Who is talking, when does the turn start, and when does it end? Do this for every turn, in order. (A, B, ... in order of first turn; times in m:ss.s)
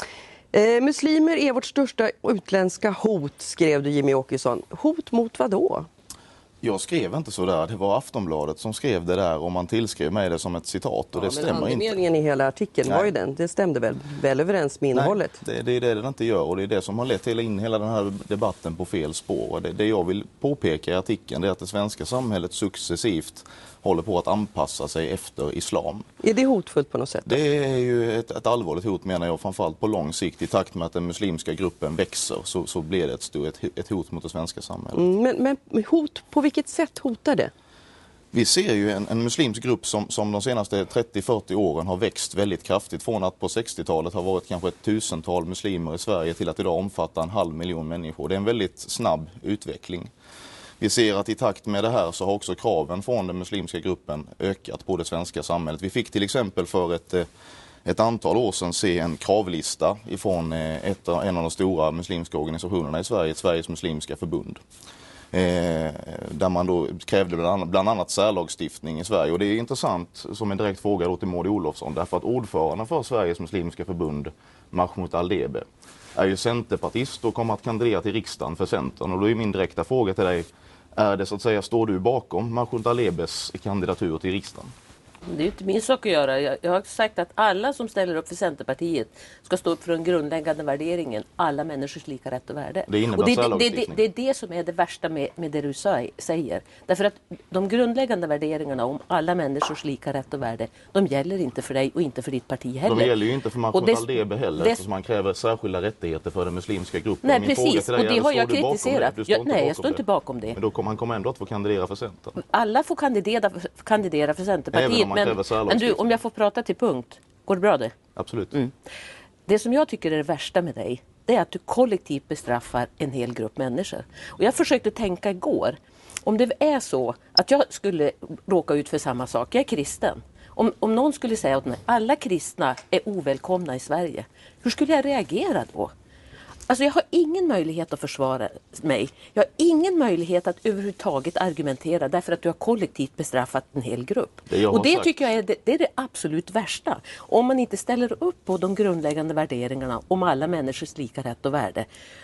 0:00.5-0:05.9 A
0:06.6-0:11.9 B
0:11.2-0:15.4 A
0:12.8-0:13.1 B
0:14.9-0:26.0 B
0:26.2-0:27.4 A
0:27.3-0:35.0 B
0:34.9-0:37.5 A
0:38.3-0:50.1 B
0:50.8-0:57.3 B
0:57.8-1:04.6 B
1:05.3-1:24.7 B
1:25.3-1:43.1 C
1:32.9-1:34.0 B
1:42.8-1:52.4 B
1:43.7-1:44.8 C
1:47.2-1:50.6 C
1:52.4-1:58.0 C
1:54.7-1:56.2 B
1:58.2-1:58.6 B
1:59.5-2:15.9 C
2:16.7-2:31.9 C
2:24.5-2:25.3 B